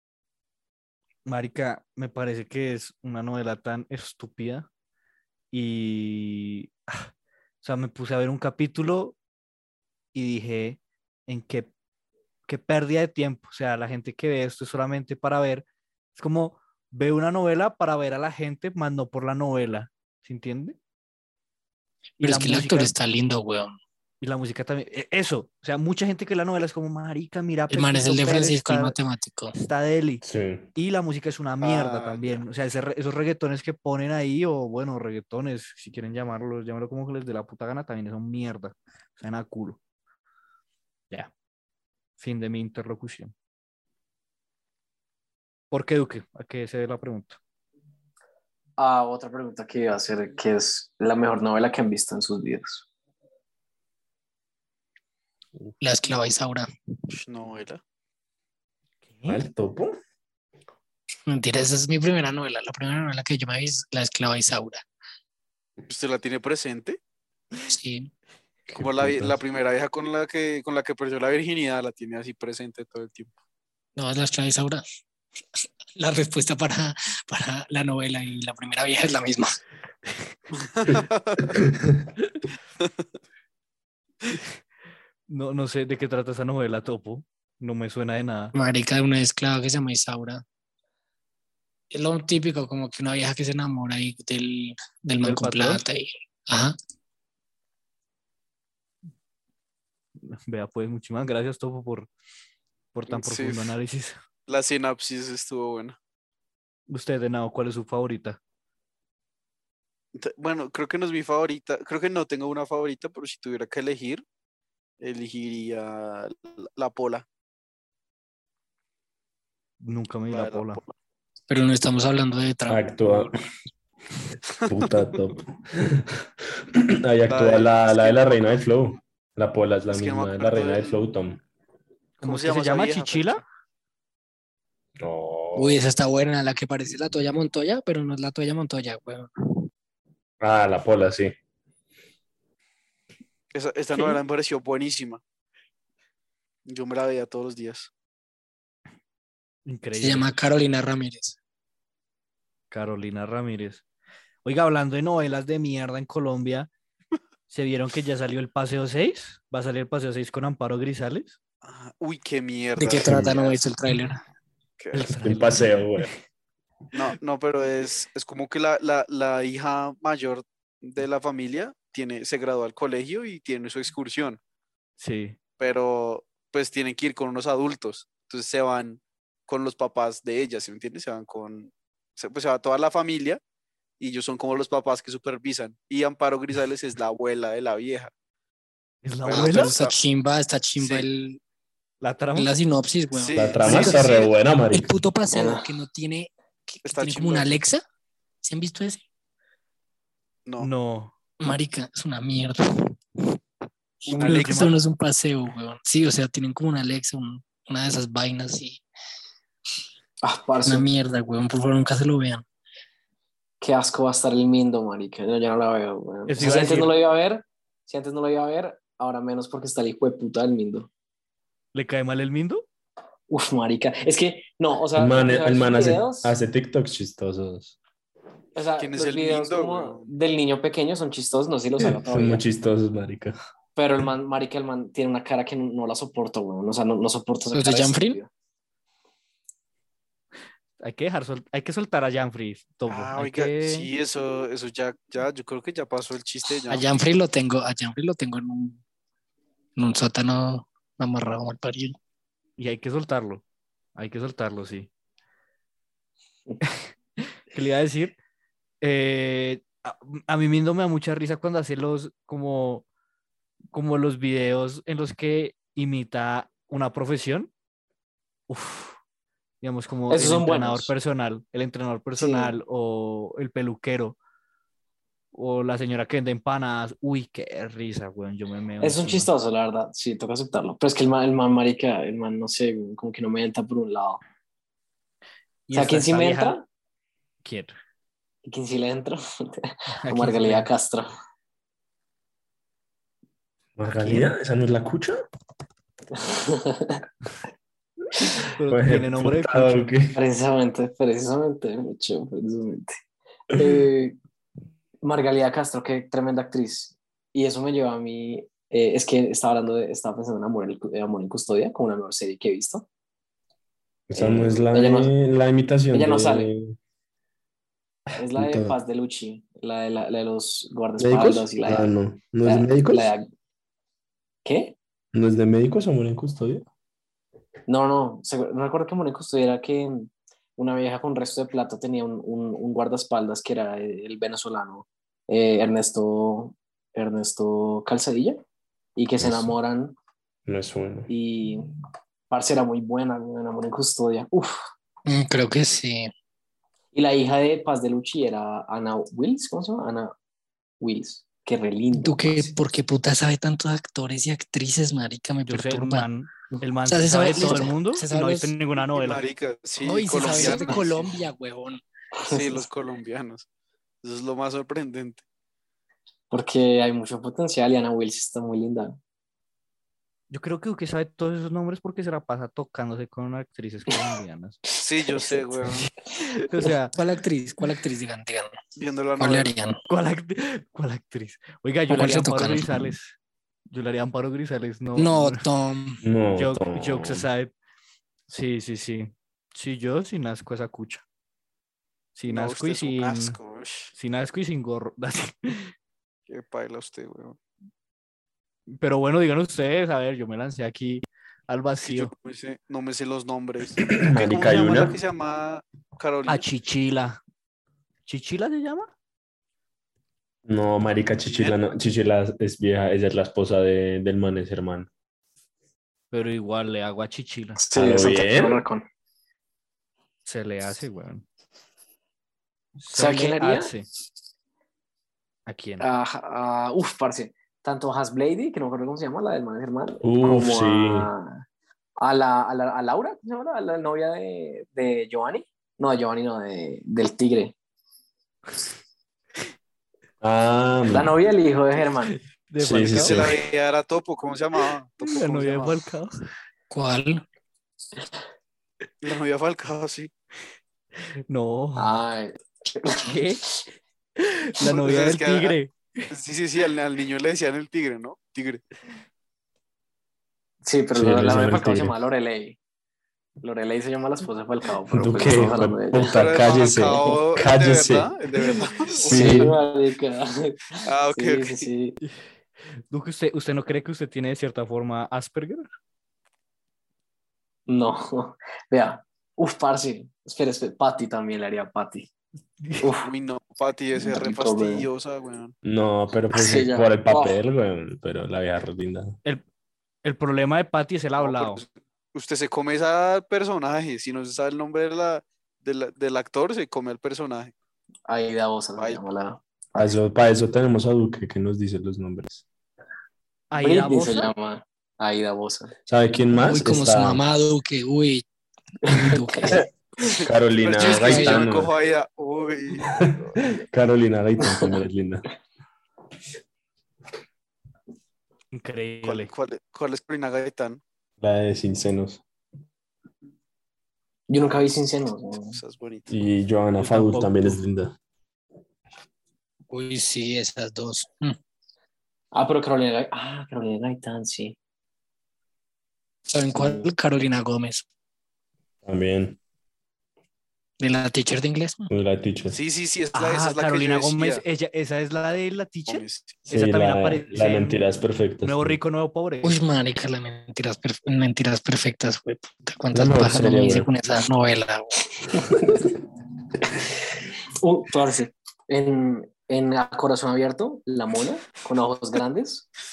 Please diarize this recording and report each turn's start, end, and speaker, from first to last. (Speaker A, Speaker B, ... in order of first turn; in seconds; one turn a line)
Speaker A: 1.2-4.7
Speaker A: 5.5-7.1
Speaker A: 7.6-9.2
Speaker A: 10.1-11.7
Speaker A: 12.5-20.8
Speaker B: 22.2-23.7
Speaker A: 22.2-22.9
Speaker A: 24.2-29.0
Speaker B: 27.7-29.6
Speaker A: 29.5-30.2
Speaker C: 30.2-30.7
Speaker A: 30.7-39.8
Speaker D: 31.6-32.4
Speaker A: 42.2-43.3
Speaker A: 45.7-47.4
Speaker E: 48.8-52.9
Speaker B: 55.8-56.7
Speaker D: 57.1-57.8
Speaker A: 59.1-59.4
Speaker C: 59.3-60.0
Speaker B: 61.3-64.8
Speaker D: 65.8-67.0
Speaker B: 67.7-68.1
Speaker C: 68.7-69.4
Speaker D: 68.7-73.3
Speaker B: 74.0-74.8
Speaker B: 76.0-79.6
Speaker D: 80.6-81.5
Speaker A: 85.3-88.5
Speaker B: 88.5-90.4
Speaker B: 91.9-96.8
Speaker A: 95.2-95.8
Speaker A: 100.2-102.1
Speaker A: 102.9-104.2
Speaker D: 103.1-103.7
Speaker D: 104.5-106.0
Speaker A: 106.9-108.4
Speaker D: 110.1-114.2
Speaker D: 115.0-117.2
Speaker A: 119.8-120.8
Speaker D: 120.3-120.9
Speaker B: 121.5-123.2
Speaker C: 122.7-123.3
Speaker C: 124.7-126.1
Speaker C: 126.7-131.4
Speaker D: 127.3-128.6
Speaker D: 129.9-131.0
Speaker A: 132.2-133.4
Speaker D: 132.2-133.4
Speaker C: 135.0-135.8
Speaker B: 135.5-139.3
Speaker C: 140.4-141.3
Speaker D: 143.5-145.2
Speaker D: 146.7-147.9
Speaker A: 149.7-150.3
Speaker B: 150.0-151.3
Speaker A: 152.7-153.8
Speaker A: 154.4-156.7
Speaker A: 157.5-161.3
Speaker D: 161.6-163.6
Speaker B: 162.8-164.2
Speaker C: 163.0-163.4
Speaker D: 164.8-165.1
Speaker A: 164.9-166.1
Speaker C: 165.1-166.1
Speaker D: 166.9-174.4
Speaker A: 175.0-175.4
Speaker D: 175.6-183.4
Speaker D: 184.0-188.1
Speaker A: 189.0-189.8
Speaker D: 189.2-189.9
Speaker B: 189.3-191.4
Speaker D: 190.8-191.0
Speaker A: 192.0-192.5
Speaker B: 192.3-194.1
Speaker D: 193.1-194.3
Speaker C: 193.3-194.9
Speaker B: 194.7-197.8
Speaker E: 195.3-195.7
Speaker D: 196.8-197.6
Speaker B: 198.4-199.0
Speaker A: 200.6-201.1
Speaker B: 201.4-202.8
Speaker D: 204.0-204.8
Speaker B: 204.2-208.8
Speaker A: 204.2-204.7
Speaker E: 210.2-210.8
Speaker B: 210.6-212.4
Speaker E: 213.6-220.9
Speaker A: 216.3-216.9
Speaker A: 221.7-222.7
Speaker E: 223.3-226.3
Speaker C: 224.9-227.8
Speaker E: 228.5-232.4
Speaker D: 228.8-230.1
Speaker C: 231.8-233.3
Speaker E: 233.8-238.3
Speaker B: 237.5-238.2
Speaker A: 240.8-243.9
Speaker D: 242.9-246.9
Speaker B: 246.7-248.8
Speaker B: 249.8-251.9
Speaker A: 252.6-253.4
Speaker A: 253.9-254.9
Speaker A: 257.5-258.1
Speaker A: 258.8-262.8
Speaker A: 263.7-267.5
Speaker A: 268.5-269.0
Speaker A: 269.6-274.2
Speaker E: 270.1-270.9
Speaker E: 272.2-272.5
Speaker A: 275.3-279.3
Speaker E: 278.8-284.2
Speaker A: 285.7-286.6
Speaker E: 285.7-286.6
Speaker A: 287.4-287.7
Speaker E: 288.4-291.1
Speaker A: 289.9-290.7
Speaker C: 293.8-295.2
Speaker A: 294.0-294.3
Speaker E: 296.1-297.0
Speaker A: 298.6-299.9
Speaker C: 298.7-300.2
Speaker E: 300.1-303.0
Speaker E: 303.5-304.2
Speaker E: 305.0-312.9
Speaker C: 314.1-316.7
Speaker E: 314.1-315.1
Speaker E: 315.9-316.5
Speaker E: 318.2-321.9
Speaker C: 318.3-318.8
Speaker C: 321.0-323.1
Speaker E: 322.4-323.2
Speaker E: 324.4-324.8
Speaker C: 325.1-326.6
Speaker E: 327.7-338.4
Speaker E: 338.9-339.9
Speaker C: 339.2-339.5
Speaker C: 340.4-341.1
Speaker E: 341.1-341.7
Speaker E: 342.3-344.6
Speaker B: 345.1-346.1
Speaker E: 346.9-350.1
Speaker E: 350.8-352.5
Speaker B: 351.9-356.1
Speaker A: 355.5-359.2
Speaker B: 356.9-358.5
Speaker D: 358.8-361.1
Speaker B: 359.8-361.8
Speaker A: 360.4-360.7
Speaker E: 362.2-362.6
Speaker D: 362.2-363.4
Speaker D: 364.0-365.2
Speaker E: 366.3-369.0
Speaker A: 370.3-374.6
Speaker D: 374.7-375.9
Speaker E: 375.1-375.5
Speaker A: 376.2-376.9
Speaker B: 376.9-378.5
Speaker D: 378.8-379.5
Speaker B: 379.2-379.8
Speaker A: 379.9-383.1
Speaker B: 381.9-382.9
Speaker A: 383.7-385.4
Speaker B: 385.0-386.0
Speaker C: 386.0-387.3
Speaker A: 386.4-387.5
Speaker A: 388.3-391.0
Speaker A: 392.1-393.4
Speaker D: 392.3-393.9
Speaker A: 393.9-395.7
Speaker D: 396.3-397.4
Speaker A: 398.8-402.1
Speaker D: 401.8-406.4
Speaker C: 403.8-405.0
Speaker A: 404.4-404.9
Speaker A: 406.3-407.2
Speaker A: 408.1-408.9
Speaker C: 410.4-414.9
Speaker D: 411.3-411.6
Speaker A: 416.1-417.6
Speaker E: 417.6-418.8
Speaker C: 417.7-418.6
Speaker A: 420.2-421.2
Speaker A: 422.8-423.9
Speaker E: 422.9-423.7
Speaker A: 425.5-425.9
Speaker E: 425.8-431.4
Speaker C: 430.0-431.1
Speaker E: 432.0-437.5
Speaker C: 440.2-441.2
Speaker E: 440.9-442.1
Speaker A: 442.1-443.2
Speaker C: 442.6-443.4
Speaker D: 443.0-445.8
Speaker A: 445.0-446.1
Speaker B: 446.7-447.2
Speaker D: 449.0-450.1
Speaker A: 451.3-452.0
Speaker E: 451.8-453.1
Speaker A: 453.0-453.4
Speaker A: 454.2-456.1
Speaker D: 454.6-455.5
Speaker D: 456.1-458.6
Speaker E: 460.6-462.6
Speaker C: 460.9-461.9
Speaker E: 463.4-467.2
Speaker C: 464.9-468.1
Speaker D: 466.1-469.1
Speaker C: 469.0-469.6
Speaker E: 469.0-472.0
Speaker D: 470.8-471.7
Speaker A: 472.9-475.6
Speaker E: 477.7-482.1
Speaker E: 482.8-483.1
Speaker D: 483.0-485.5
Speaker E: 483.9-484.9
Speaker C: 485.6-489.2
Speaker E: 486.3-487.4
Speaker A: 490.0-491.6
Speaker D: 491.2-497.5
Speaker E: 498.1-499.8
Speaker C: 499.7-502.4
Speaker A: 503.5-504.3
Speaker E: 503.6-505.7
Speaker C: 505.9-507.2
Speaker B: 506.4-508.2
Speaker E: 508.9-509.6
Speaker B: 508.9-509.7
Speaker C: 510.2-511.7
Speaker D: 510.6-513.3
Speaker B: 510.8-511.5
Speaker C: 512.8-515.2
Speaker A: 518.5-519.3
Speaker D: 519.0-520.8
Speaker C: 521.2-522.2
Speaker E: 524.3-525.6
Speaker D: 525.5-526.1
Speaker C: 526.1-528.0
Speaker A: 526.8-527.6
Speaker B: 529.7-531.4
Speaker E: 532.3-534.5
Speaker B: 536.3-537.8
Speaker C: 538.8-539.4
Speaker B: 540.8-541.9
Speaker C: 541.9-542.6
Speaker D: 542.5-544.4
Speaker A: 543.1-547.8
Speaker D: 545.9-546.4
Speaker C: 546.5-548.8
Speaker A: 548.4-549.6
Speaker B: 549.4-555.0
Speaker C: 552.9-553.9
Speaker E: 555.3-555.8
Speaker E: 557.6-562.7